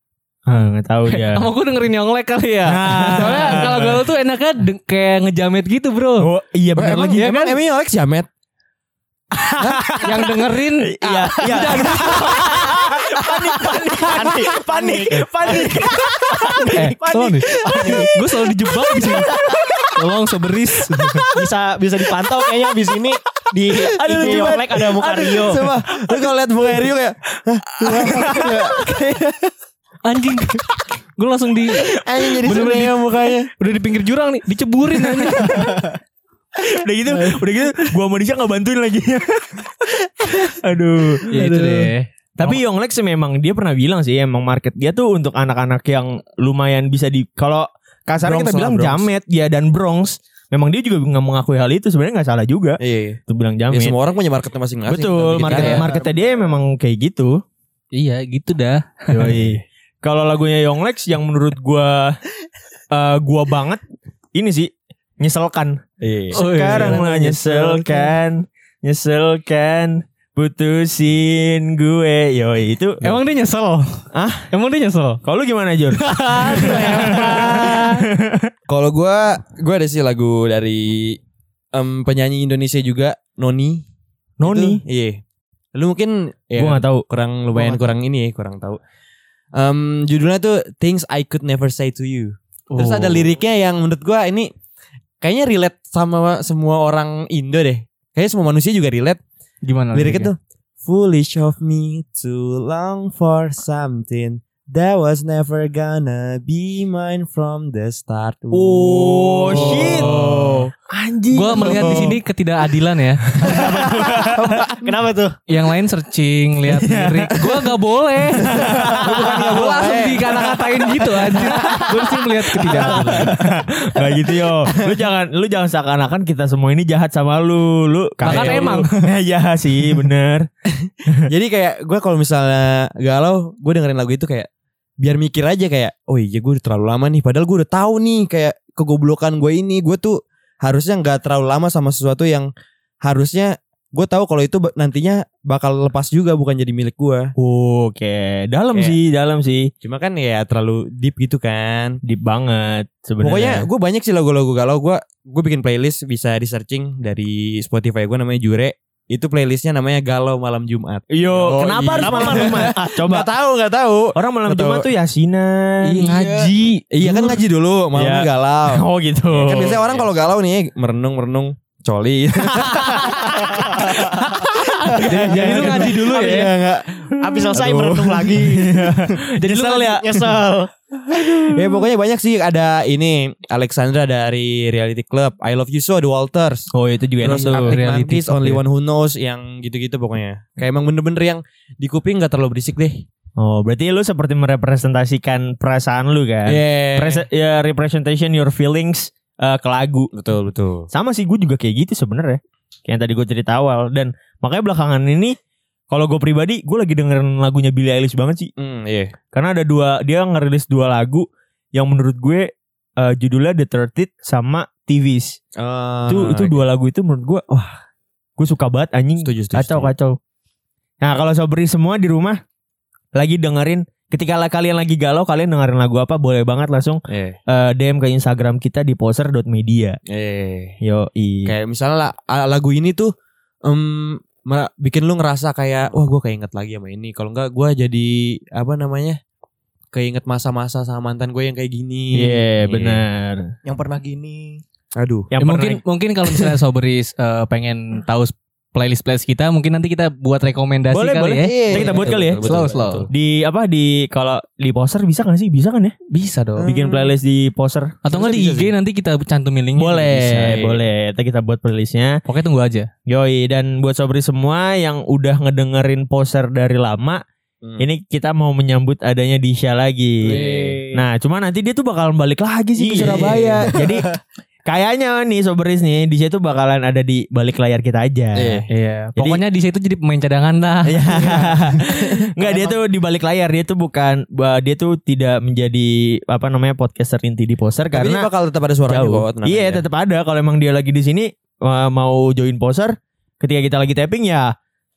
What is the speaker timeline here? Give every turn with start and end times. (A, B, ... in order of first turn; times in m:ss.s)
0:00.4-0:01.5 A
0:01.1-0:06.3 B
0:02.7-0:04.0 A
0:06.2-0:07.5 A
0:06.8-0:08.3 C
0:09.3-0:10.3 A
0:09.6-0:10.0 C
0:10.0-0:12.5 B
0:10.8-0:18.0 A
0:11.4-0:12.1 D
0:13.9-0:18.1 D
0:16.7-0:19.3 B
0:18.9-0:19.6 D
0:19.0-0:19.9 A
0:19.9-0:21.3 B
0:21.3-0:25.6 D
0:23.8-0:26.3 A
0:25.4-0:29.5 C
0:27.8-0:28.9 A
0:30.0-0:33.0 B
0:31.9-0:33.5 C
0:33.6-0:35.9 B
0:36.6-0:41.5 A
0:41.3-0:42.6 B
0:41.4-0:41.8 C
0:42.4-0:53.9 A
0:48.2-0:49.1 C
0:52.8-0:55.9 C
0:54.9-0:57.4 A
0:55.5-0:55.8 B
0:55.6-0:56.2 D
0:57.9-0:59.4 B
0:59.1-1:02.2 A
1:02.9-1:03.8 A
1:04.3-1:05.8 A
1:06.0-1:08.1 C
1:06.3-1:13.1 A
1:06.3-1:07.2 B
1:13.0-1:15.2 B
1:14.1-1:14.5 A
1:15.2-1:18.5 A
1:15.9-1:18.0 B
1:16.6-1:17.6 C
1:18.7-1:21.2 C
1:21.7-1:23.8 C
1:24.4-1:24.8 A
1:24.4-1:25.2 C
1:25.7-1:28.8 C
1:26.6-1:27.0 A
1:27.6-1:27.8 B
1:29.5-1:34.5 C
1:32.7-1:33.3 B
1:35.2-1:39.2 C
1:39.6-1:40.3 B
1:39.9-1:50.7 C
1:48.5-1:52.2 A
1:51.3-1:53.2 B
1:51.5-1:52.0 C
1:53.3-1:54.6 A
1:53.4-1:53.7 D
1:54.3-1:54.9 C
1:54.8-1:55.4 D
1:55.5-1:58.6 B
1:56.7-1:57.4 A
1:58.4-1:59.4 A
1:58.4-2:00.5 C
1:59.2-2:03.3 B
2:01.2-2:01.7 D
2:01.4-2:01.8 C
2:02.6-2:03.3 D
2:02.8-2:10.5 A
2:08.2-2:08.8 C
2:08.2-2:09.1 B
2:10.8-2:14.5 C
2:15.0-2:22.5 C
2:23.0-2:27.3 C
2:27.4-2:29.7 A
2:29.8-2:32.0 C
2:32.0-2:33.6 A
2:33.2-2:44.9 C
2:41.1-2:43.3 A
2:42.0-2:42.7 D
2:44.1-2:46.1 A
2:46.0-2:47.4 B
2:46.0-2:46.5 D
2:46.9-2:53.1 C
2:47.9-2:50.0 A
2:52.8-2:53.9 A
2:53.6-2:54.1 D
2:54.4-2:56.0 A
2:55.0-2:57.8 C
2:55.0-2:56.5 B
2:56.0-2:56.4 D
2:57.2-3:00.7 D
2:57.5-3:00.3 A
3:01.1-3:01.8 A
3:01.1-3:06.7 C
3:06.7-3:07.8 A
3:07.2-3:13.1 C
3:07.3-3:08.6 B
3:13.4-3:20.1 A
3:16.4-3:17.2 C
3:20.1-3:20.9 C
3:20.9-3:25.3 A
3:25.9-3:28.5 A
3:28.6-3:29.1 C
3:29.3-3:35.4 A
3:35.6-3:36.6 C
3:36.1-3:37.8 A
3:38.4-3:40.2 A
3:39.2-3:39.9 C
3:41.0-3:42.4 A
3:43.2-3:50.0 A
3:47.1-3:47.4 C
3:50.1-3:50.8 C
3:50.8-3:51.5 A
3:51.4-3:53.1 C
3:53.6-3:59.2 C
3:59.9-4:03.0 C
4:02.1-4:03.5 A
4:03.6-4:04.6 D
4:04.9-4:05.3 C
4:05.3-4:05.8 A
4:05.4-4:13.1 B
4:10.9-4:12.4 A
4:11.4-4:13.1 C
4:13.1-4:15.9 A
4:16.1-4:16.7 B
4:16.6-4:17.1 C
4:16.6-4:18.0 A
4:18.0-4:20.6 B
4:18.1-4:18.7 C
4:19.8-4:22.2 A
4:20.4-4:20.8 C
4:22.2-4:22.9 B
4:23.1-4:27.2 A
4:27.8-4:30.4 A
4:30.2-4:30.9 C
4:30.3-4:30.9 D
4:30.9-4:34.1 A
4:32.8-4:33.7 C
4:34.7-4:38.6 A
4:38.3-4:38.6 C
4:38.7-4:41.2 B
4:39.2-4:39.4 A
4:40.9-4:48.3 A
4:42.4-4:42.8 C
4:47.9-4:49.8 C
4:48.9-4:54.5 A